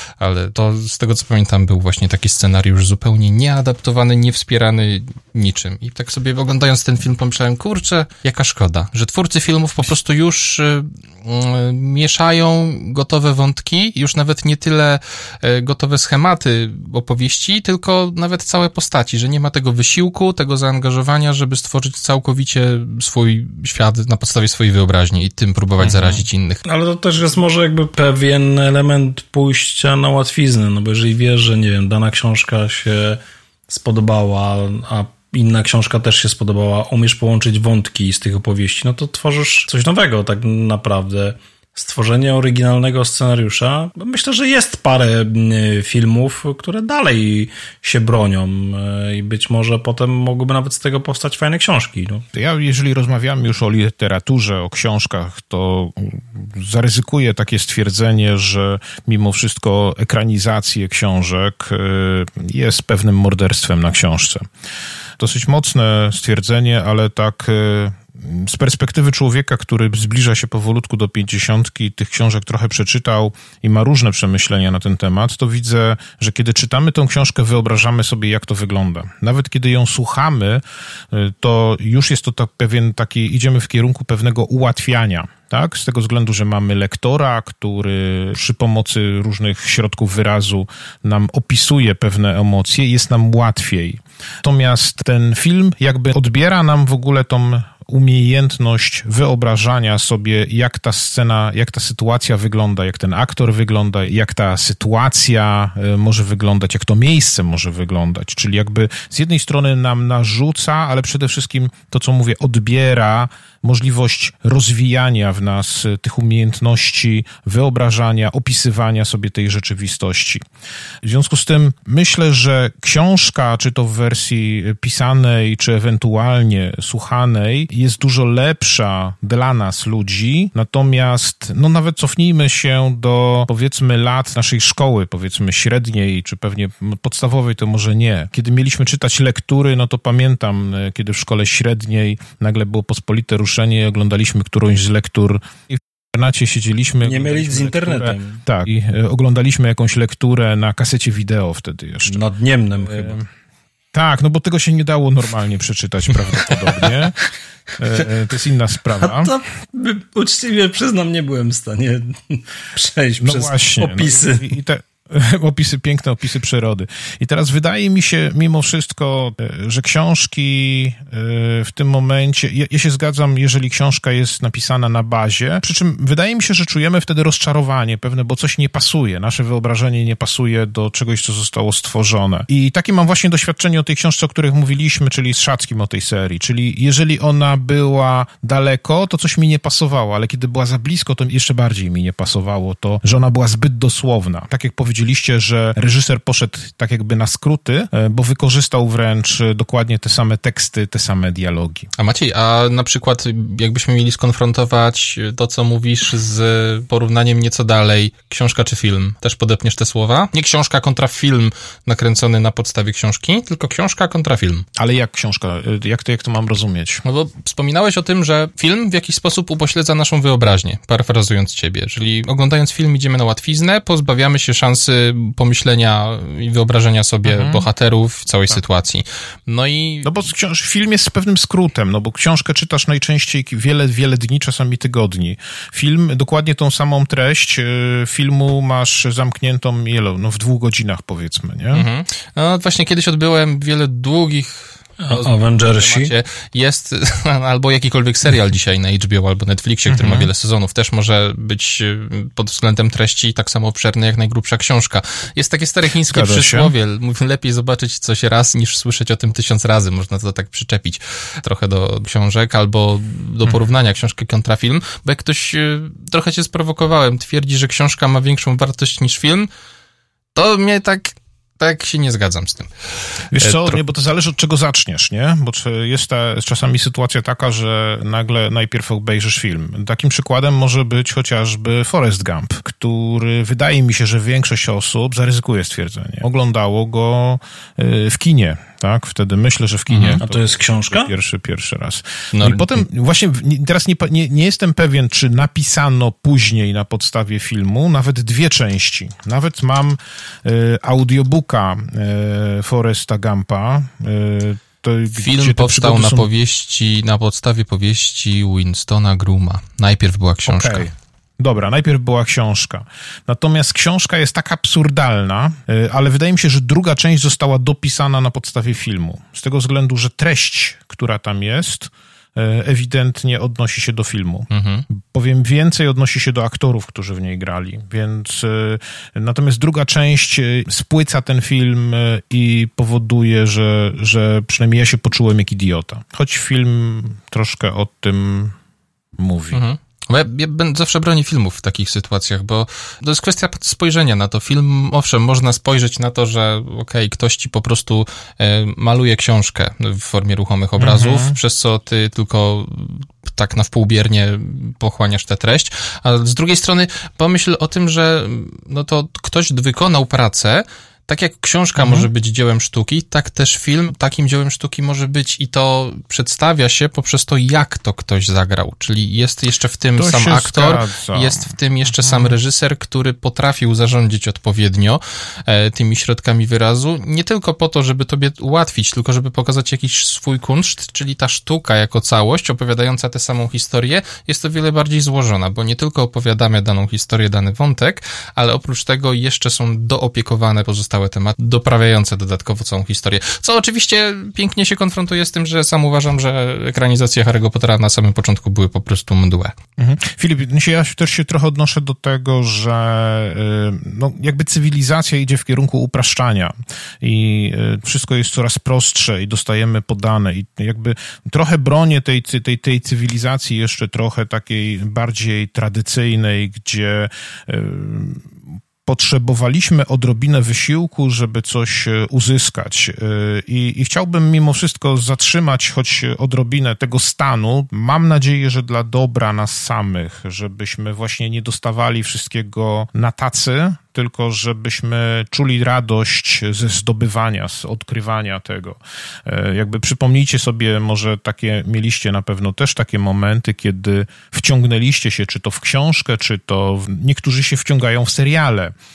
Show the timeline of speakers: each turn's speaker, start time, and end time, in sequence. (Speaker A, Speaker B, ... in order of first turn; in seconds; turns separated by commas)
Speaker A: 0.2-26.6, Speaker B: 25.8-26.2, Speaker C: 26.6-52.3, Speaker B: 52.3-64.5, Speaker B: 65.2-120.4, Speaker B: 121.0-152.2, Speaker C: 147.0-148.4, Speaker C: 152.1-153.2, Speaker B: 152.8-153.3, Speaker B: 153.9-157.2, Speaker A: 156.6-156.9, Speaker B: 157.8-159.3, Speaker C: 159.0-164.5, Speaker B: 163.2-201.9, Speaker A: 202.0-214.7, Speaker B: 214.8-217.0, Speaker A: 217.1-230.2, Speaker B: 227.2-227.7, Speaker B: 230.1-241.9, Speaker A: 241.7-269.5, Speaker C: 245.0-246.1, Speaker B: 249.9-250.3, Speaker B: 256.1-256.7, Speaker A: 270.4-272.7, Speaker B: 273.3-306.3, Speaker A: 273.4-273.8, Speaker A: 289.9-290.2, Speaker C: 290.2-291.1, Speaker A: 292.3-292.8, Speaker A: 305.1-310.9, Speaker B: 310.5-338.6, Speaker A: 324.5-324.9, Speaker B: 339.2-339.6, Speaker A: 339.5-399.6, Speaker B: 350.8-351.4, Speaker B: 361.8-362.1, Speaker B: 370.0-372.4, Speaker B: 399.8-418.3, Speaker B: 418.9-448.8